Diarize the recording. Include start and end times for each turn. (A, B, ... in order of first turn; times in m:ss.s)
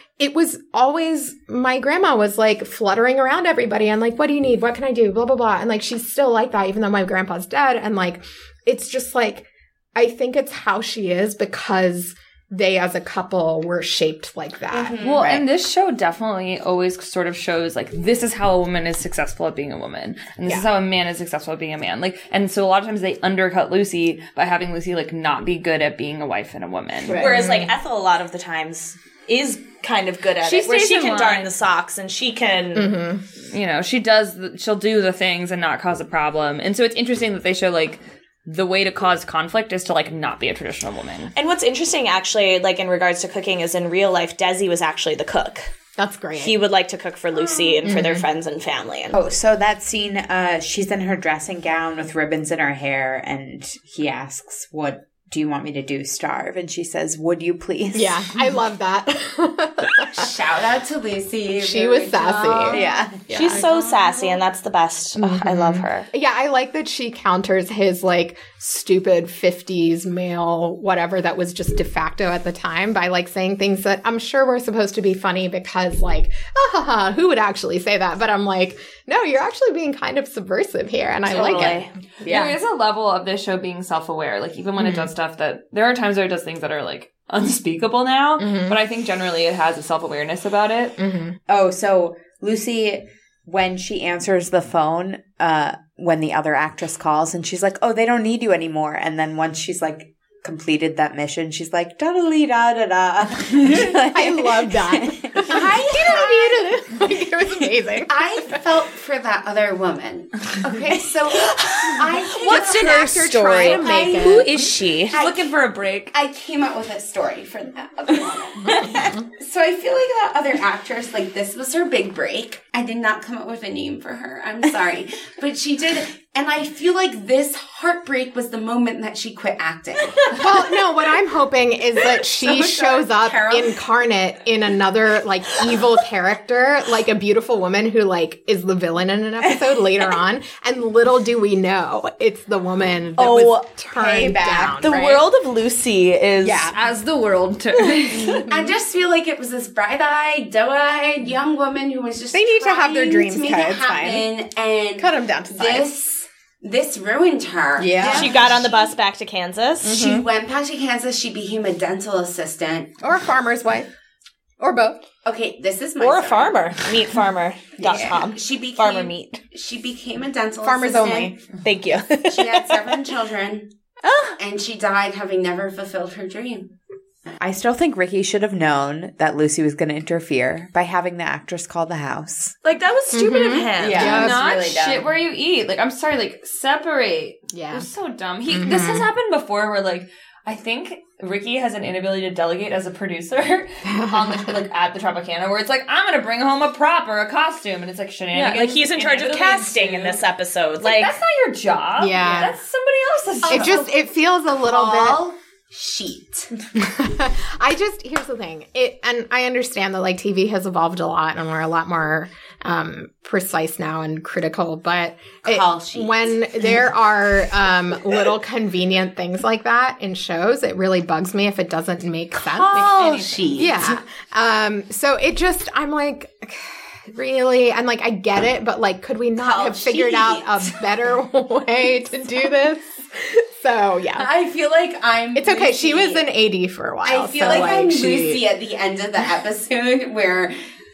0:00.2-0:15.0 A
0:14.7-0:15.3 B
0:15.0-0:27.3 C
0:27.1-0:27.8 A
0:27.1-0:33.0 D
0:30.4-0:31.5 C
0:32.8-0:33.2 A
0:33.5-0:41.3 C
0:41.3-0:45.7 D
0:46.0-0:46.6 A
0:46.4-0:49.2 D
0:47.8-0:48.3 A
0:49.1-0:58.4 E
0:57.9-1:00.3 A
1:00.1-1:03.0 B
1:01.6-1:04.1 A
1:02.7-1:03.6 E
1:03.3-1:06.1 D
1:05.2-1:22.5 A
1:21.3-1:21.9 D
1:21.3-1:22.6 E
1:22.2-1:31.0 C
1:24.8-1:25.1 A
1:28.4-1:28.8 A
1:31.0-1:31.4 A
1:31.5-1:45.8 E
1:43.9-1:48.2 A
1:45.5-1:46.7 B
1:48.1-1:55.6 B
1:52.4-1:56.1 D
1:52.4-1:54.7 A
1:56.1-2:10.4 B
1:58.6-1:59.2 D
1:58.7-1:59.2 A
2:10.3-2:25.3 A
2:12.4-2:13.8 B
2:23.2-2:26.7 D
2:24.2-2:24.5 E
2:26.4-2:26.8 A
2:26.7-2:28.5 C
2:27.8-2:28.4 D
2:28.2-2:28.7 A
2:28.5-2:38.9 B
2:32.3-2:34.3 A
2:35.0-2:35.9 A
2:37.8-2:38.5 A
2:38.0-2:40.0 D
2:39.8-2:40.3 A
2:39.9-2:43.0 B
2:43.0-2:43.9 A
2:44.6-2:45.0 A
2:45.2-2:46.7 B
2:46.0-2:49.4 D
2:47.9-2:51.4 B
2:50.6-2:51.5 A
2:51.6-2:52.9 D
2:52.3-2:53.7 B
2:54.0-2:54.4 D
2:54.4-2:56.7 B
2:57.4-3:02.6 E
3:02.6-3:04.3 D
3:03.1-3:04.5 A
3:03.8-3:04.6 E
3:03.8-3:05.0 B
3:03.9-3:20.2 C
3:07.5-3:07.9 A
3:08.5-3:09.1 A
3:13.9-3:14.5 A
3:18.3-3:21.2 D
3:20.8-3:23.9 C
3:22.0-3:22.6 A
3:23.5-3:23.9 B
3:23.5-3:25.2 A
3:24.6-3:26.5 B
3:26.8-3:54.3 A
3:35.4-3:36.7 B
3:42.4-3:44.0 B
3:49.4-3:50.8 B
3:54.1-3:56.3 B
3:55.4-3:58.4 A
3:57.0-4:00.6 B